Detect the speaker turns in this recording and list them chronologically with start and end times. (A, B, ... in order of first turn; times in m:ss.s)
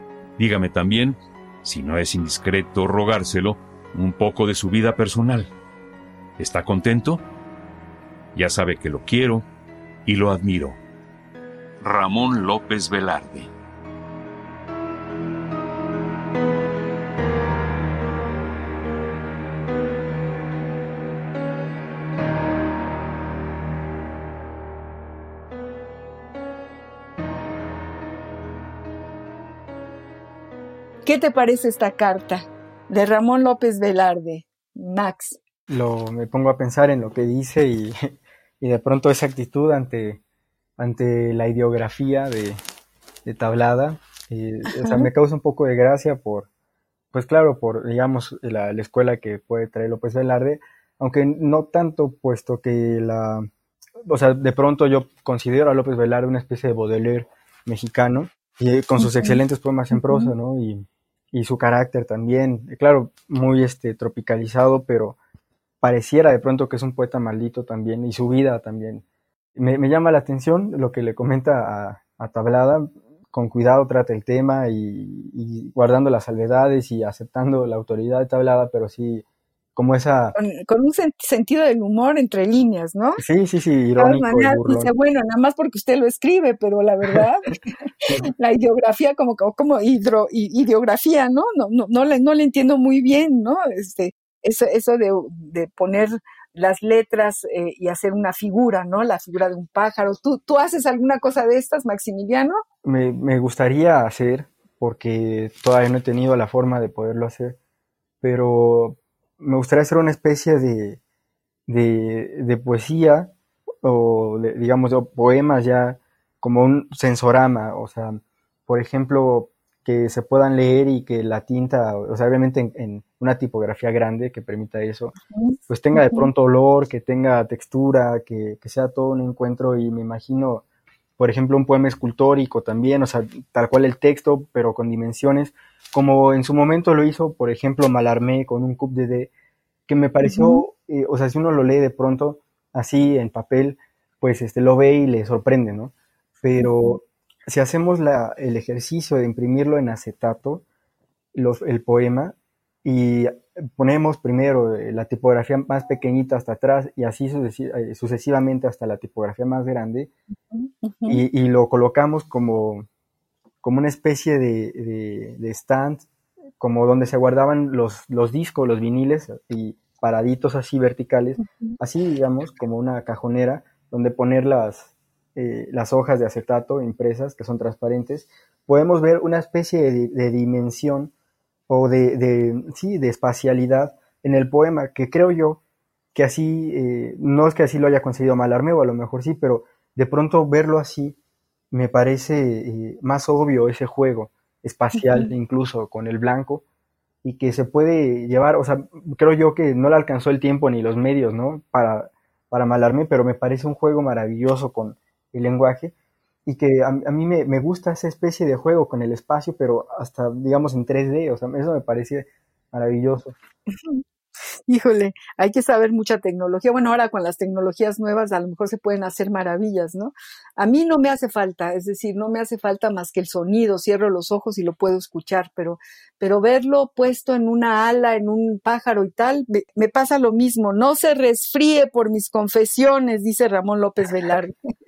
0:00.4-0:05.5 A
0:06.4-0:07.2 A
0:08.4-0:09.5 A
0:10.1-0:10.8 A
0:11.8-0:13.5 A
0:31.0-0:35.4 B
0:35.7-0:40.2 C
0:40.8-0:42.6 C
0:43.2-0:46.5 C
0:47.1-0:53.5 C
0:54.0-1:05.2 C
0:59.0-0:59.4 B
0:59.9-1:00.3 B
1:05.8-1:09.0 C
1:09.6-1:19.2 C
1:19.8-1:20.4 C
1:20.4-1:23.2 B
1:23.2-1:24.9 C
1:24.0-1:42.6 B
1:42.8-1:47.6 C
1:48.2-1:51.0 C
1:51.7-1:53.3 C
1:53.8-2:05.2 C
2:05.3-2:06.3 B
2:05.7-2:10.6 C
2:11.2-2:19.3 C
2:19.9-2:30.6 C
2:20.2-2:20.6 B
2:31.3-2:40.1 C
2:40.5-2:41.2 B
2:41.1-2:42.9 C
2:43.6-2:46.1 C
2:46.6-3:01.1 C
3:01.7-3:05.6 C
3:06.1-3:11.2 C
3:11.7-3:16.6 C
3:15.0-3:15.3 B
3:17.2-3:25.9 C
3:26.5-3:33.4 C
3:34.7-3:54.5 B